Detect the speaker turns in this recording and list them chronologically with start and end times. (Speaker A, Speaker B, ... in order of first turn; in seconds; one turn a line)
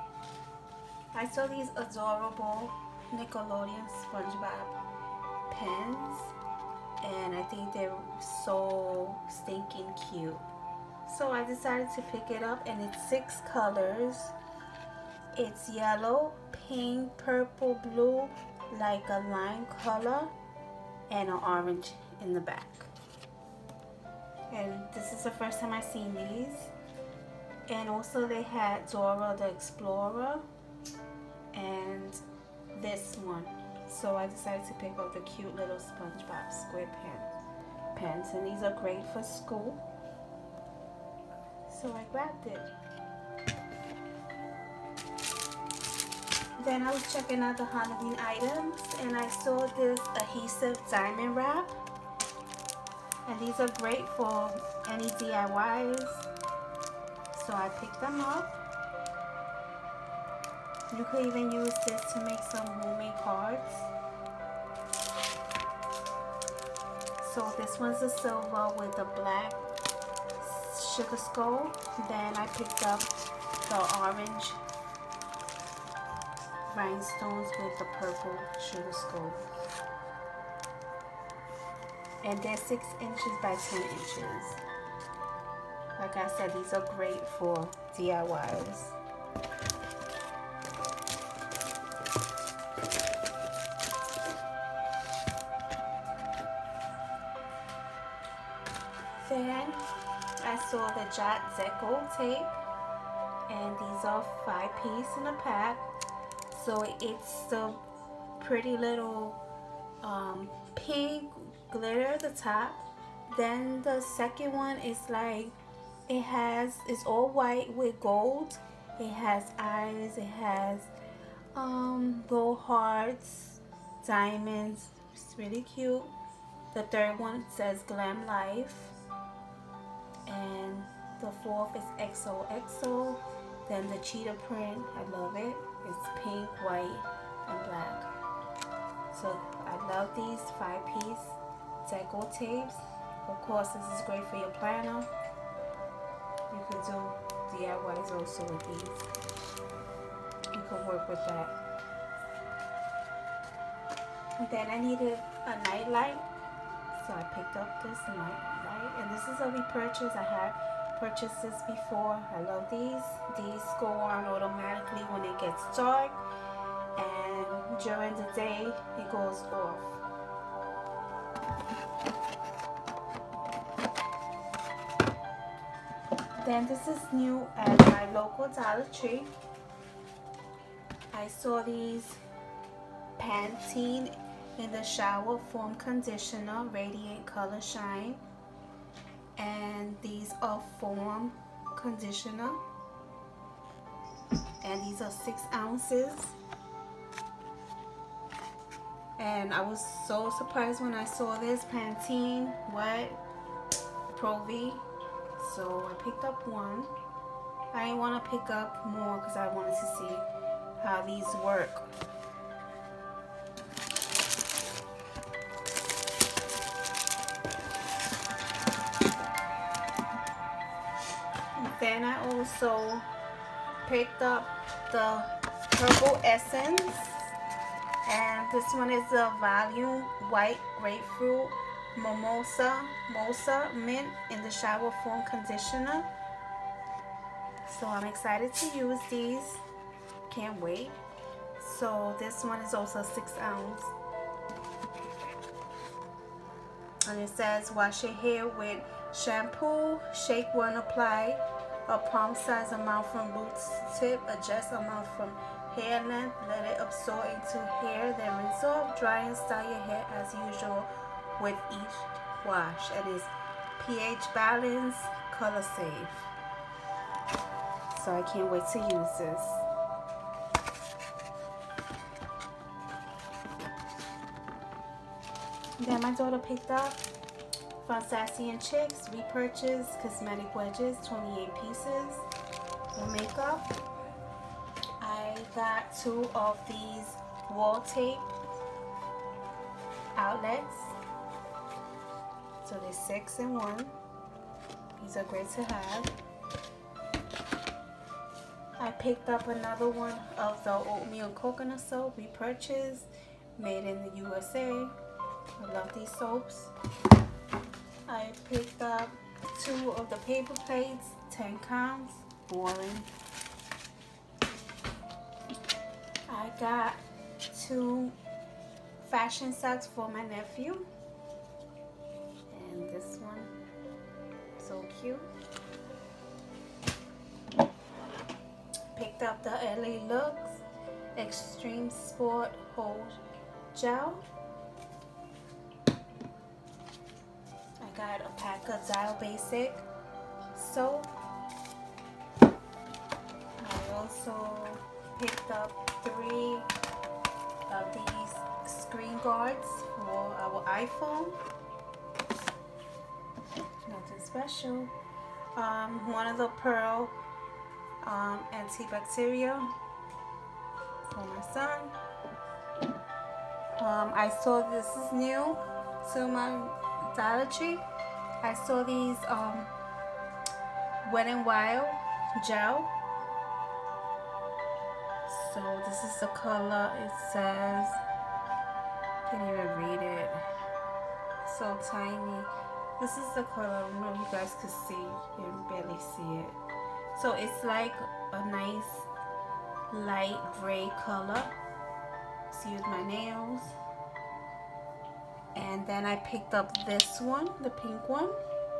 Speaker A: 1.1-4.8
Speaker A: 5.5-6.3
Speaker A: 7.0-10.4
Speaker A: 11.1-14.3
Speaker A: 15.3-20.3
Speaker A: 21.1-22.9
Speaker A: 24.5-26.7
Speaker A: 27.7-30.4
Speaker A: 31.5-32.2
Speaker A: 32.7-37.3
Speaker A: 37.9-39.8
Speaker A: 41.7-42.7
Speaker A: 46.6-51.7
Speaker A: 53.2-56.3
Speaker A: 57.3-58.6
Speaker A: 60.9-63.9
Speaker A: 67.2-69.6
Speaker A: 70.4-73.1
Speaker A: 73.7-74.6
Speaker A: 76.7-79.5
Speaker A: 82.2-84.6
Speaker A: 86.0-89.0
Speaker A: 99.2-99.8
Speaker A: 100.4-102.5
Speaker A: 103.5-105.9
Speaker A: 106.5-107.8
Speaker A: 108.4-109.4
Speaker A: 110.0-115.5
Speaker A: 116.1-120.9
Speaker A: 121.5-126.1
Speaker A: 126.7-128.9
Speaker A: 130.2-138.1
Speaker A: 139.1-145.1
Speaker A: 146.5-149.1
Speaker A: 150.5-151.5
Speaker A: 154.4-156.3
Speaker A: 156.9-166.2
Speaker A: 166.9-170.0
Speaker A: 176.4-179.3
Speaker A: 181.1-182.2
Speaker A: 183.2-188.2
Speaker A: 189.4-192.6
Speaker A: 194.6-196.4
Speaker A: 199.2-203.2
Speaker A: 204.1-204.8
Speaker A: 205.4-206.9
Speaker A: 207.7-210.2
Speaker A: 210.8-211.9
Speaker A: 221.6-223.1
Speaker A: 223.8-227.3
Speaker A: 228.0-236.1
Speaker A: 237.6-239.6
Speaker A: 240.3-241.0
Speaker A: 241.6-243.9
Speaker A: 247.1-266.3
Speaker A: 267.9-269.6
Speaker A: 275.8-277.0
Speaker A: 277.8-282.2
Speaker A: 282.9-283.7
Speaker A: 285.0-288.3
Speaker A: 290.1-291.0
Speaker A: 292.6-293.9
Speaker A: 295.0-296.1
Speaker A: 298.8-304.9
Speaker A: 305.6-306.7
Speaker A: 308.1-313.1
Speaker A: 316.3-318.1
Speaker A: 319.0-320.9
Speaker A: 322.5-323.5
Speaker A: 324.6-325.3
Speaker A: 328.9-330.6
Speaker A: 331.1-333.2
Speaker A: 333.7-334.2
Speaker A: 337.8-339.8
Speaker A: 340.5-341.1
Speaker A: 343.6-346.7
Speaker A: 347.7-351.4
Speaker A: 353.9-354.9
Speaker A: 355.5-357.1
Speaker A: 358.0-359.7
Speaker A: 361.1-361.9
Speaker A: 363.8-367.8
Speaker A: 368.4-369.7
Speaker A: 371.0-372.9
Speaker A: 375.3-378.0
Speaker A: 379.3-380.4
Speaker A: 381.4-386.6
Speaker A: 387.1-389.1
Speaker A: 389.9-391.5
Speaker A: 392.5-393.7
Speaker A: 395.5-398.4